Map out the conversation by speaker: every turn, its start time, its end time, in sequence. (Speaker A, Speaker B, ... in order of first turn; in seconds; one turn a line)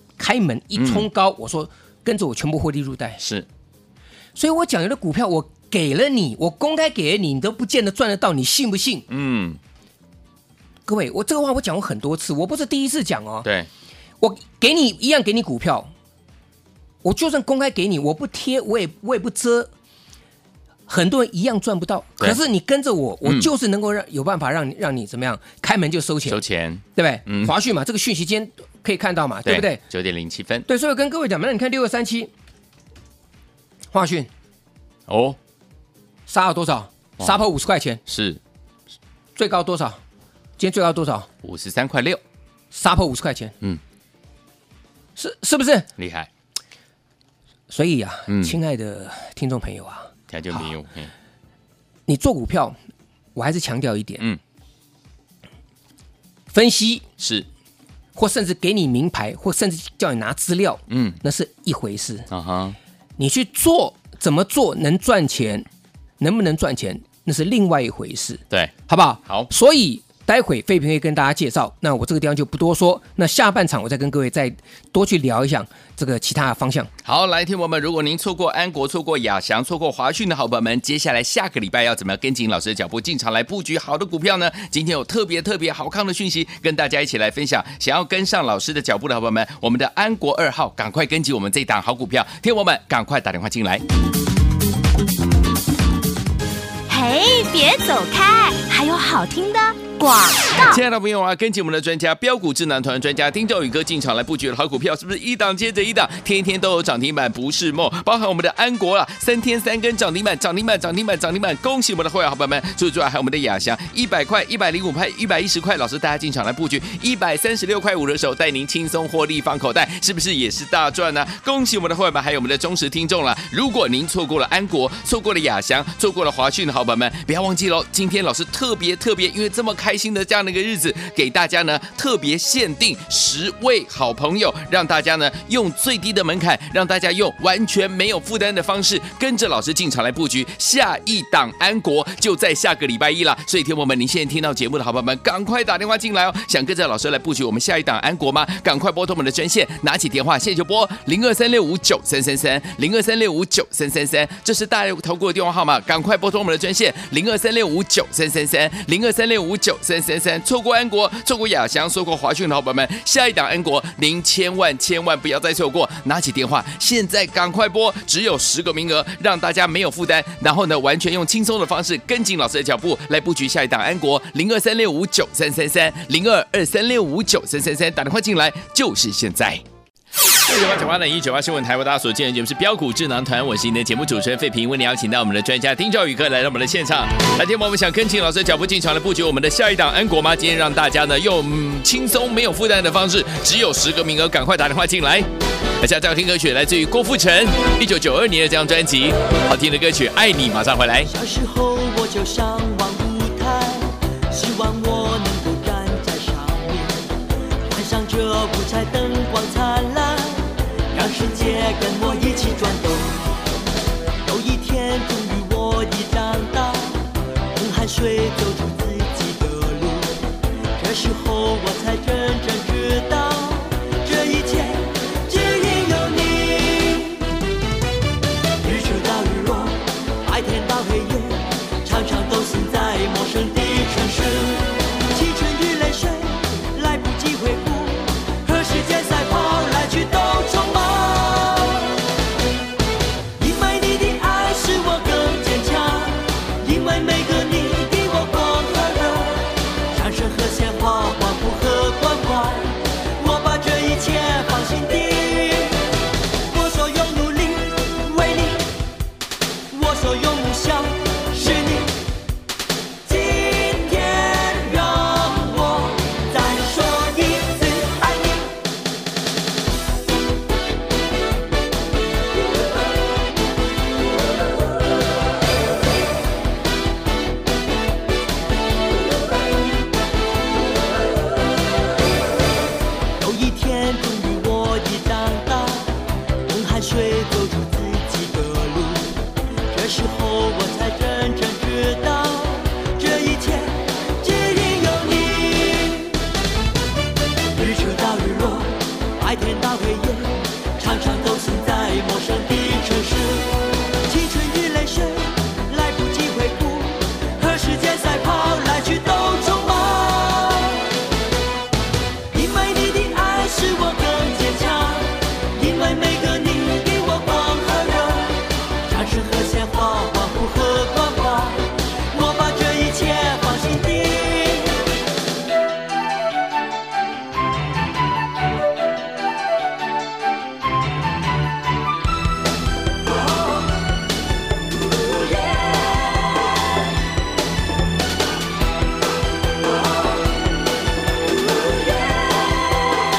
Speaker A: 0.2-3.2
Speaker B: 0.8-1.1
Speaker B: 3.2-3.5
Speaker A: 4.4-9.1
Speaker B: 9.1-9.6
Speaker A: 10.9-13.5
Speaker B: 13.4-13.7
Speaker A: 14.2-15.9
Speaker A: 17.0-19.7
Speaker A: 20.9-26.4
Speaker B: 23.2-23.5
Speaker B: 26.3-27.5
Speaker A: 27.0-29.8
Speaker B: 29.4-30.7
Speaker A: 30.7-32.3
Speaker A: 33.9-34.3
Speaker B: 35.1-35.4
Speaker A: 36.3-38.0
Speaker B: 38.1-38.4
Speaker A: 39.4-40.0
Speaker A: 40.6-41.3
Speaker B: 41.4-42.2
Speaker A: 42.7-43.5
Speaker A: 45.2-45.9
Speaker B: 46.0-46.3
Speaker A: 47.7-50.7
Speaker B: 48.3-48.6
Speaker B: 50.3-51.1
Speaker A: 52.1-52.8
Speaker A: 53.4-54.2
Speaker A: 56.5-57.1
Speaker B: 57.2-57.5
Speaker A: 58.1-62.3
Speaker B: 60.9-61.2
Speaker B: 62.3-62.8
Speaker A: 63.2-65.7
Speaker A: 66.2-76.9
Speaker B: 77.0-93.8
Speaker C: 96.9-100.8
Speaker B: 100.7-179.6
Speaker B: 180.3-201.1
Speaker D: 201.1-207.1
Speaker D: 207.7-213.2
Speaker D: 214.2-220.2
Speaker D: 220.8-227.3
Speaker D: 228.6-242.0
Speaker D: 243.4-255.8
Speaker D: 256.5-258.7
Speaker D: 259.7-262.0
Speaker D: 263.0-268.5
Speaker D: 283.2-296.2
Speaker D: 297.5-310.9
Speaker D: 312.3-324.9
Speaker D: 341.7-342.8